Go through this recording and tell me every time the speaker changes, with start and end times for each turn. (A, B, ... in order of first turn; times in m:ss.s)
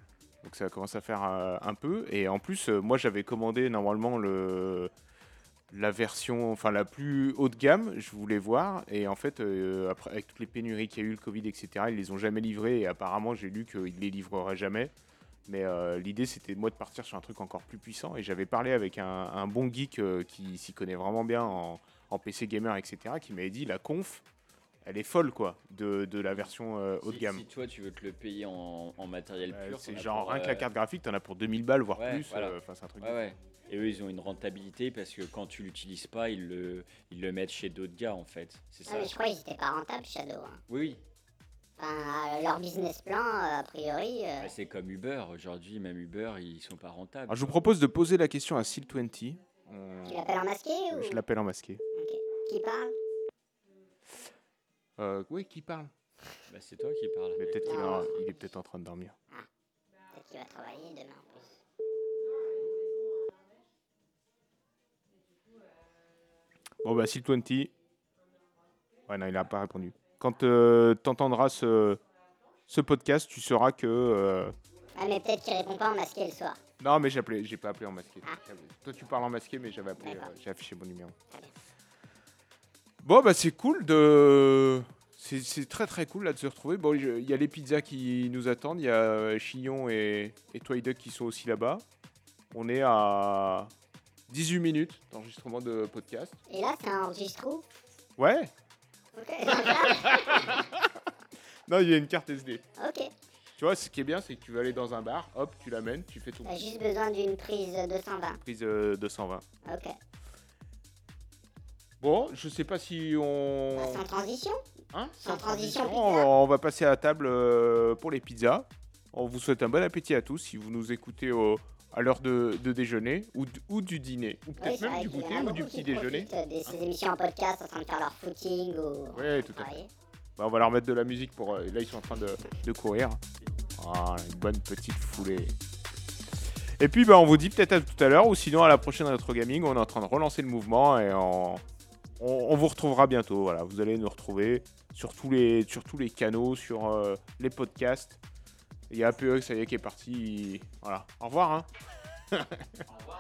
0:00.4-0:04.9 A
0:05.7-0:14.9 A
0:15.5-0:24.2 A
0:24.8-0:27.4 A
0:27.0-0:30.7 B
0:29.5-0:33.2 A
0:32.0-0:39.2 B
0:38.9-0:40.6 C
0:40.7-0:41.0 B
0:41.8-0:44.5 C
0:44.4-0:47.7 B
0:47.3-0:51.8 A
0:50.1-0:51.2 C
0:52.0-0:52.9 C
0:55.0-0:55.9 A
0:56.5-0:58.3 B
0:57.4-0:59.2 A
0:57.7-0:58.1 C
1:00.1-1:01.6 C
1:06.8-1:07.7 A
1:09.1-1:12.0 A
1:12.7-1:14.5 A
1:15.0-1:16.6 C
1:16.8-1:21.2 A
1:20.0-1:20.3 C
1:23.0-1:31.8 A
1:32.5-1:33.7 A
1:34.3-1:36.4 A
1:36.5-1:37.6 C
1:38.2-1:38.5 A
1:39.2-1:40.6 C
1:39.6-1:40.9 A
1:41.7-1:42.6 A
1:42.8-1:43.1 C
1:43.6-1:46.6 A
1:46.4-1:48.4 C
1:48.4-1:49.4 A
1:49.6-1:49.9 C
1:52.0-1:54.1 A
1:53.7-1:54.6 C
1:54.9-2:06.8 A
1:55.2-1:56.3 C
2:04.6-2:09.9 C
2:09.1-2:09.8 A
2:10.4-2:13.2 A
2:13.8-2:15.5 A
2:16.8-2:21.6 A
2:22.2-2:28.2 A
2:28.9-2:31.7 A
2:32.3-2:32.8 A